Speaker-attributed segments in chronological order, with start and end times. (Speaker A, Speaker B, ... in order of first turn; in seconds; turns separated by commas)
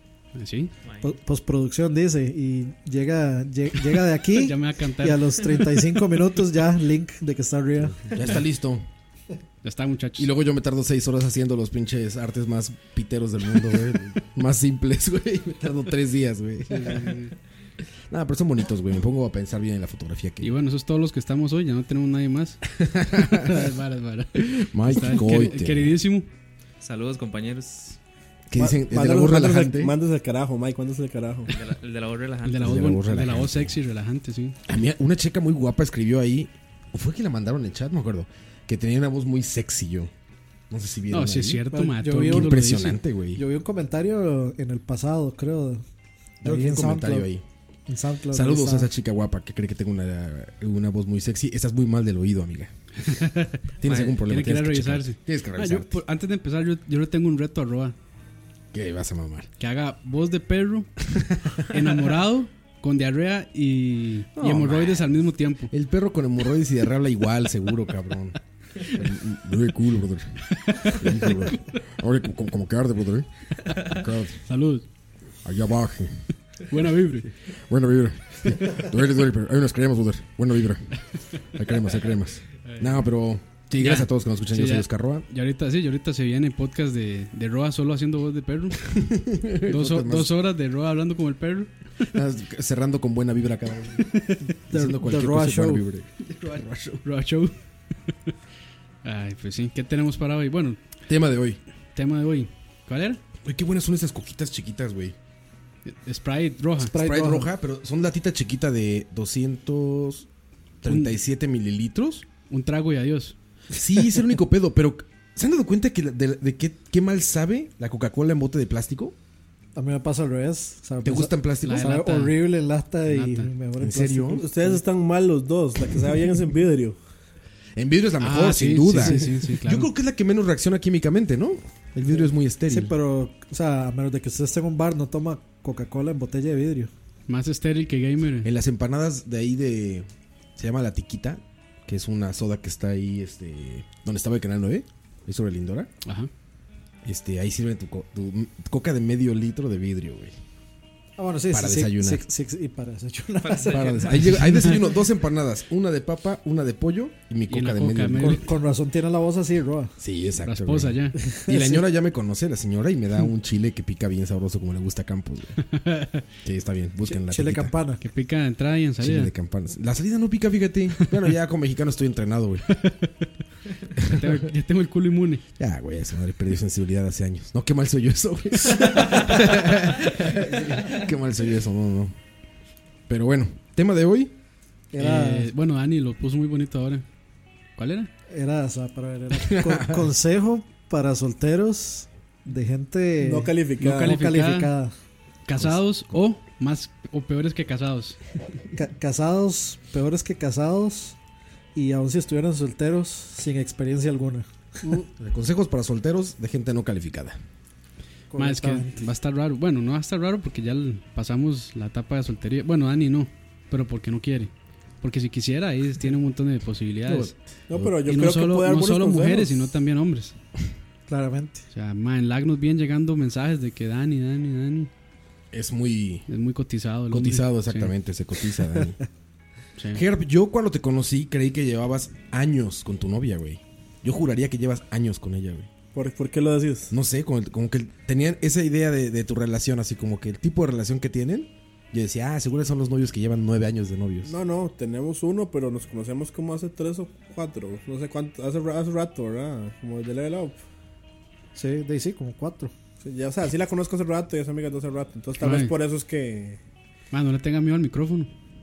Speaker A: 0.3-0.7, Speaker B: 1.0-8.1, Speaker A: 4.1-5.9, Speaker C: 7.9-8.9, Speaker A: 9.6-10.3, Speaker C: 10.2-17.3, Speaker A: 16.7-17.3, Speaker C: 18.1-20.5, Speaker A: 20.4-26.3, Speaker C: 22.8-23.6, Speaker C: 24.4-25.9, Speaker D: 26.8-28.0, Speaker C: 28.5-29.9, Speaker E: 28.6-31.5, Speaker D: 31.5-32.7, Speaker A: 32.4-34.6, Speaker C: 32.6-33.7, Speaker C: 34.7-40.1, Speaker C: 40.7-41.6, Speaker A: 41.1-43.0, Speaker B: 41.7-42.9, Speaker C: 42.2-43.4, Speaker B: 43.4-45.8, Speaker C: 46.4-47.4, Speaker B: 46.4-47.3, Speaker B: 47.9-48.9, Speaker C: 48.3-52.7, Speaker A: 53.0-58.0, Speaker C: 53.8-56.0, Speaker C: 58.7-59.5, Speaker A: 59.6-60.9, Speaker A: 61.7-65.7, Speaker C: 64.4-65.2, Speaker C: 65.7-68.4, Speaker C: 68.9-73.3, Speaker A: 70.6-71.5, Speaker C: 73.8-74.4, Speaker A: 74.5-74.8, Speaker C: 75.4-76.2, Speaker A: 76.7-77.3, Speaker C: 77.7-80.9, Speaker C: 81.5-85.3, Speaker A: 82.7-83.1, Speaker A: 83.8-89.0, Speaker C: 88.9-90.3, Speaker A: 89.7-92.1, Speaker C: 92.1-94.1, Speaker A: 94.0-94.5, Speaker B: 94.7-95.8, Speaker C: 94.7-97.0, Speaker A: 97.0-97.5, Speaker A: 99.0-100.8, Speaker C: 101.1-101.6, Speaker A: 102.0-103.2, Speaker C: 103.4-105.2, Speaker A: 105.9-106.9, Speaker B: 106.8-107.5, Speaker C: 106.9-110.3, Speaker C: 110.8-112.3, Speaker A: 110.8-111.1, Speaker A: 112.5-113.3, Speaker C: 113.7-119.2, Speaker B: 119.8-124.8, Speaker C: 121.0-121.9, Speaker A: 121.6-122.5, Speaker A: 123.0-123.5, Speaker C: 123.8-124.4, Speaker E: 124.4-127.0, Speaker C: 127.8-132.9, Speaker A: 128.2-129.9, Speaker B: 132.7-136.9, Speaker A: 137.3-138.5, Speaker C: 138.4-145.9, Speaker A: 146.0-146.3, Speaker C: 147.0-150.3, Speaker B: 151.2-153.9, Speaker C: 151.5-152.2, Speaker D: 153.4-154.2, Speaker C: 153.7-158.5, Speaker A: 154.2-154.8, Speaker A: 157.5-158.5, Speaker B: 158.2-159.9, Speaker C: 160.0-165.6, Speaker A: 160.4-161.2, Speaker B: 161.2-161.9, Speaker A: 165.7-166.2, Speaker C: 166.4-167.7, Speaker B: 167.1-168.0, Speaker A: 168.0-169.3, Speaker C: 169.0-172.7, Speaker A: 172.7-173.1, Speaker A: 174.0-175.4, Speaker C: 174.0-174.3, Speaker C: 175.6-182.2, Speaker C: 183.1-184.3, Speaker B: 184.9-185.5, Speaker A: 185.0-187.1, Speaker A: 187.8-188.1, Speaker B: 188.3-194.9, Speaker C: 189.4-190.0, Speaker E: 193.2-194.2, Speaker A: 193.8-194.7, Speaker A: 195.5-198.2, Speaker C: 195.6-196.2, Speaker B: 198.8-201.2, Speaker B: 201.8-204.5, Speaker C: 205.2-207.4, Speaker B: 208.3-209.0, Speaker A: 208.4-217.3, Speaker C: 217.1-218.0, Speaker E: 217.7-219.6, Speaker A: 218.0-220.3, Speaker B: 221.1-221.6, Speaker A: 221.7-224.9, Speaker C: 225.5-226.3, Speaker A: 226.3-227.9, Speaker C: 227.1-229.0, Speaker A: 229.8-230.0, Speaker C: 229.9-235.7, Speaker E: 235.9-236.9, Speaker C: 236.9-244.3, Speaker E: 244.2-250.6, Speaker B: 251.6-252.7, Speaker E: 253.0-256.6, Speaker A: 255.4-255.7, Speaker A: 257.1-258.3